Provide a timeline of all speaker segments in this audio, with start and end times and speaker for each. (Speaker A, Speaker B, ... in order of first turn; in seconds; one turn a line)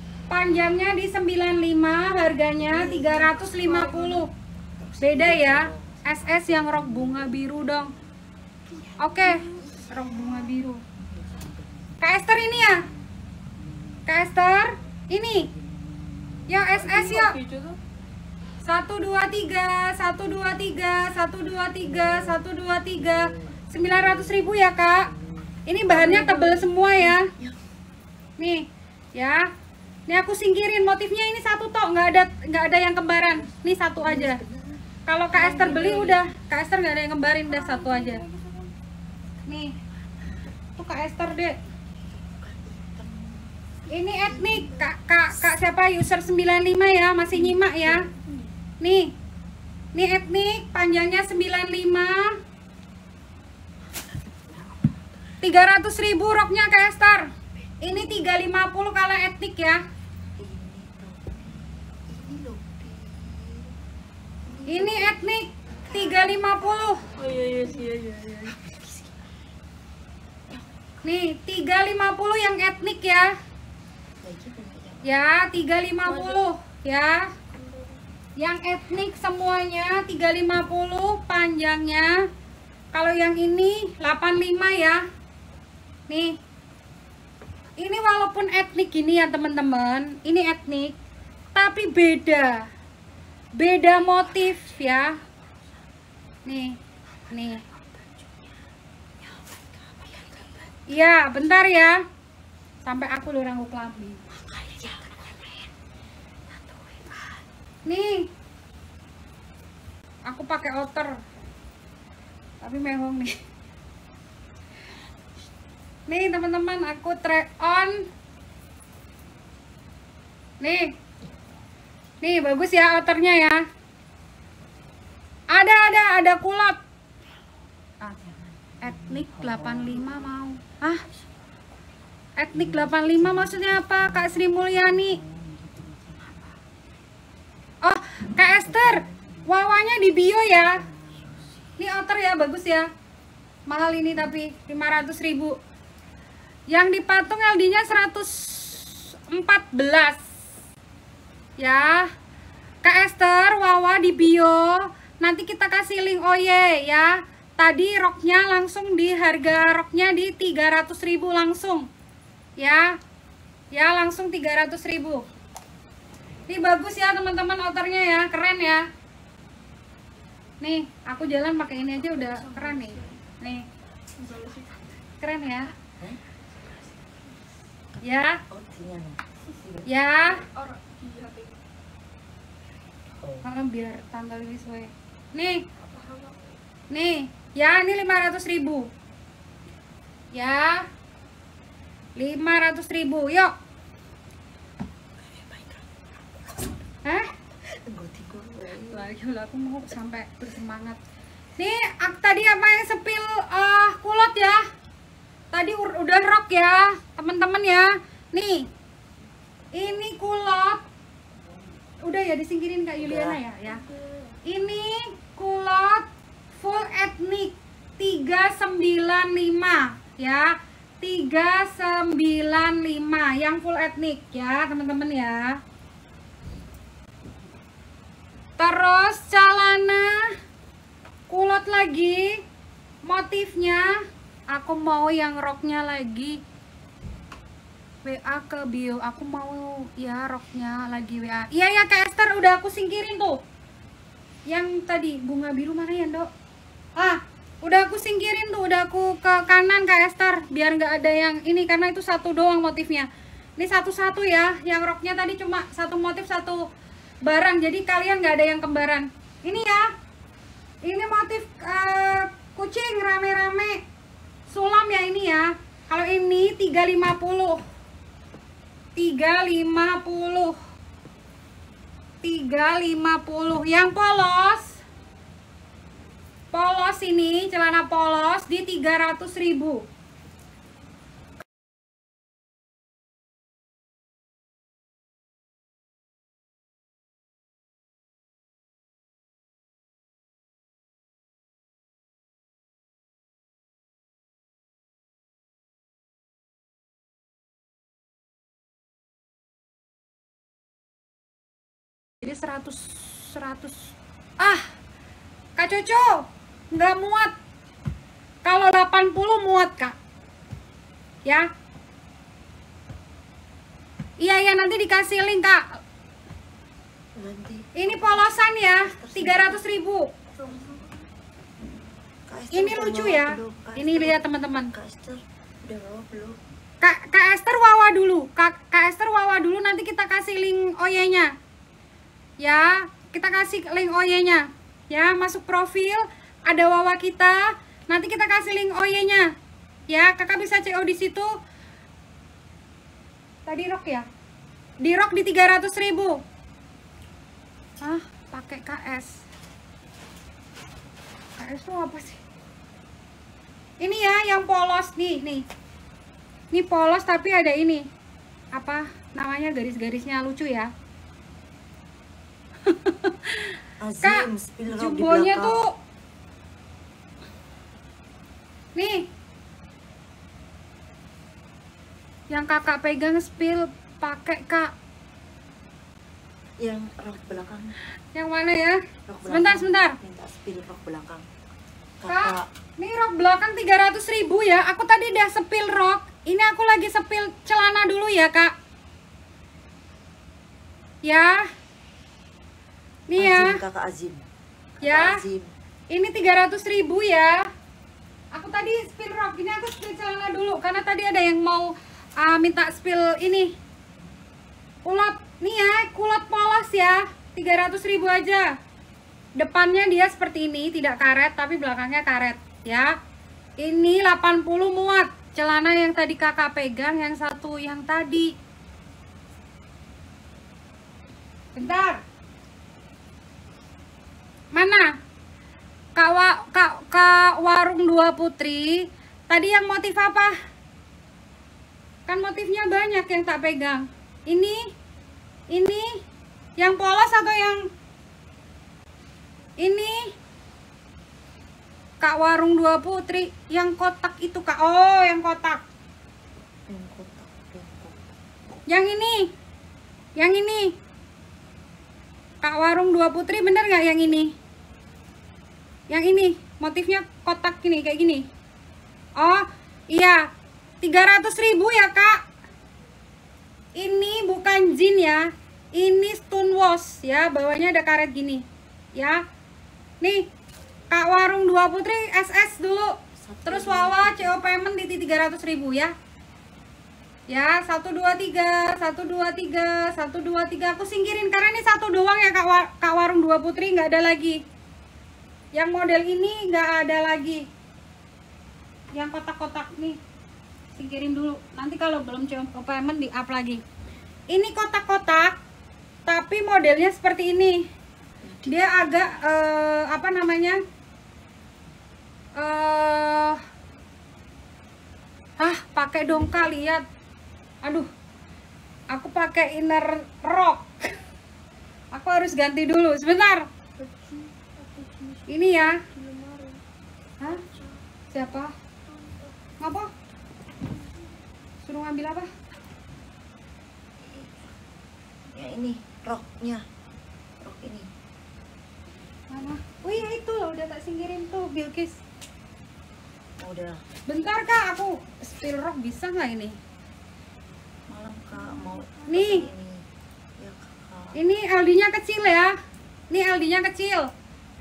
Speaker A: 0.3-4.3
Speaker B: 2.8-3.5
Speaker C: 3.0-4.2
Speaker B: 4.8-6.1
Speaker A: 5.0-7.9
Speaker B: 8.7-10.4
Speaker A: 9.0-10.8
Speaker B: 11.0-12.0
Speaker A: 12.0-12.9
Speaker A: 14.1-15.5
Speaker A: 16.5-17.4
Speaker C: 16.7-17.8
Speaker A: 18.6-25.1
Speaker B: 22.0-22.4
Speaker B: 23.5-24.4
Speaker B: 25.1-27.6
Speaker A: 25.7-27.3
Speaker C: 25.9-26.7
Speaker A: 28.4-29.5
Speaker A: 30.1-34.4
Speaker B: 33.3-34.9
Speaker A: 35.1-38.2
Speaker B: 35.4-35.9
Speaker C: 35.6-36.2
Speaker C: 37.6-38.7
Speaker A: 39.5-39.7
Speaker A: 40.8-41.6
Speaker B: 42.0-44.9
Speaker A: 43.9-48.1
Speaker A: 48.8-49.1
Speaker A: 49.9-52.3
Speaker B: 54.0-55.0
Speaker A: 55.4-57.3
Speaker A: 57.8-59.8
Speaker B: 60.4-63.8
Speaker B: 64.4-66.5
Speaker A: 64.7-67.0
Speaker C: 67.2-68.6
Speaker B: 67.5-67.9
Speaker B: 68.5-69.1
Speaker B: 70.5-70.8
Speaker A: 71.0-73.3
Speaker B: 74.2-75.2
Speaker A: 75.0-77.3
Speaker C: 76.1-76.5
Speaker C: 77.6-77.9
Speaker A: 78.4-82.2
Speaker A: 82.9-85.0
Speaker A: 87.8-90.9
Speaker A: 91.5-92.7
Speaker A: 93.6-95.2
Speaker B: 94.4-94.8
Speaker A: 96.5-96.7
Speaker A: 97.3-97.6
Speaker B: 97.3-98.5
Speaker B: 99.2-100.8
Speaker A: 100.9-102.0
Speaker A: 102.8-104.2
Speaker B: 104.3-105.7
Speaker B: 106.5-107.4
Speaker A: 107.9-108.3
Speaker A: 110.3-111.1
Speaker A: 112.6-113.3
Speaker A: 116.1-118.0
Speaker A: 120.6-120.9
Speaker A: 122.2-123.6
Speaker A: 125.5-126.8
Speaker A: 128.0-128.3
Speaker B: 128.2-130.3
Speaker A: 128.8-131.0
Speaker A: 132.4-135.2
Speaker B: 132.5-136.5
Speaker A: 137.8-140.9
Speaker B: 138.6-139.5
Speaker B: 140.6-141.7
Speaker A: 141.8-142.9
Speaker A: 143.7-145.6
Speaker A: 146.7-150.2
Speaker A: 151.6-152.1
Speaker A: 152.8-161.9
Speaker A: 162.6-163.0
Speaker A: 163.7-165.2
Speaker A: 166.5-168.8
Speaker A: 170.6-173.7
Speaker C: 172.3-173.0
Speaker C: 174.2-175.0
Speaker A: 175.2-175.8
Speaker A: 178.0-178.4
Speaker B: 178.5-179.9
Speaker A: 179.8-180.5
Speaker C: 180.4-181.6
Speaker B: 183.2-183.5
Speaker A: 183.4-185.7
Speaker C: 185.8-186.4
Speaker A: 186.9-188.9
Speaker A: 190.3-190.9
Speaker A: 192.2-193.5
Speaker B: 195.2-196.8
Speaker A: 197.1-197.3
Speaker B: 197.7-199.1
Speaker A: 198.8-201.0
Speaker A: 201.6-204.6
Speaker A: 205.5-208.7
Speaker A: 209.8-210.8
Speaker A: 212.0-213.9
Speaker B: 213.0-213.4
Speaker A: 214.4-225.6
Speaker A: 228.6-230.3
Speaker A: 231.3-232.4
Speaker A: 233.1-233.9
Speaker A: 234.5-236.4
Speaker A: 238.0-243.4
Speaker A: 244.5-246.3
Speaker A: 247.0-256.6
Speaker A: 257.2-259.9
Speaker A: 260.9-263.8
Speaker A: 264.5-267.6
Speaker A: 269.0-270.6
Speaker A: 272.2-274.8
Speaker A: 276.5-279.9
Speaker A: 302.2-304.7
Speaker A: 305.6-307.3
Speaker A: 308.4-310.0
Speaker A: 314.2-315.6
Speaker B: 317.2-319.6
Speaker A: 317.8-320.1
Speaker C: 320.4-321.0
Speaker B: 322.3-326.4
Speaker A: 322.5-324.7
Speaker A: 326.8-331.3
Speaker A: 332.4-339.3
Speaker A: 339.9-341.3
Speaker A: 343.5-344.1
Speaker A: 344.8-346.2
Speaker A: 347.8-349.2
Speaker A: 351.4-352.2
Speaker A: 353.8-355.4
Speaker A: 356.5-357.9
Speaker A: 358.5-360.7
Speaker A: 362.6-365.7
Speaker B: 363.8-365.6
Speaker A: 368.8-369.1
Speaker A: 372.3-374.7
Speaker B: 376.6-377.8
Speaker A: 378.1-380.0
Speaker B: 379.1-381.3
Speaker B: 382.0-382.5
Speaker A: 382.1-388.5
Speaker A: 391.0-391.5
Speaker A: 393.1-393.6
Speaker B: 393.2-394.2
Speaker B: 394.8-395.5
Speaker A: 394.8-395.2
Speaker A: 395.9-397.5
Speaker A: 398.3-403.5
Speaker A: 404.9-408.5
Speaker A: 409.4-412.9
Speaker A: 413.6-418.3
Speaker A: 421.6-422.0
Speaker A: 424.5-424.9
Speaker A: 426.0-430.4
Speaker A: 432.1-434.6
Speaker A: 435.5-435.9
Speaker A: 436.6-437.6
Speaker A: 439.6-440.1
Speaker A: 442.0-445.6
Speaker B: 446.7-448.1
Speaker A: 448.7-449.3
Speaker A: 450.2-450.7
Speaker A: 452.4-454.3
Speaker A: 455.9-458.3
Speaker A: 459.2-460.2
Speaker A: 460.8-462.2
Speaker A: 463.8-468.4
Speaker A: 469.0-469.2
Speaker A: 470.9-475.9
Speaker B: 473.2-474.4
Speaker A: 477.3-484.4
Speaker A: 485.6-487.5
Speaker A: 488.9-490.0
Speaker A: 490.8-493.6
Speaker A: 494.3-495.4
Speaker A: 496.1-497.6
Speaker B: 498.2-499.2
Speaker A: 498.5-500.6
Speaker A: 502.4-503.4
Speaker A: 505.4-506.8
Speaker A: 508.9-510.7
Speaker A: 511.9-513.5
Speaker C: 513.8-516.6
Speaker A: 515.3-515.8
Speaker A: 518.1-518.5
Speaker C: 518.9-519.3
Speaker A: 519.6-519.9
Speaker A: 521.6-522.3
Speaker B: 524.1-524.3
Speaker B: 525.3-526.6
Speaker B: 527.4-527.9
Speaker A: 529.3-532.0
Speaker B: 533.4-533.8
Speaker A: 534.1-536.5
Speaker B: 537.9-539.8
Speaker A: 539.1-539.5
Speaker B: 540.4-541.2
Speaker A: 541.1-542.5
Speaker A: 543.1-544.1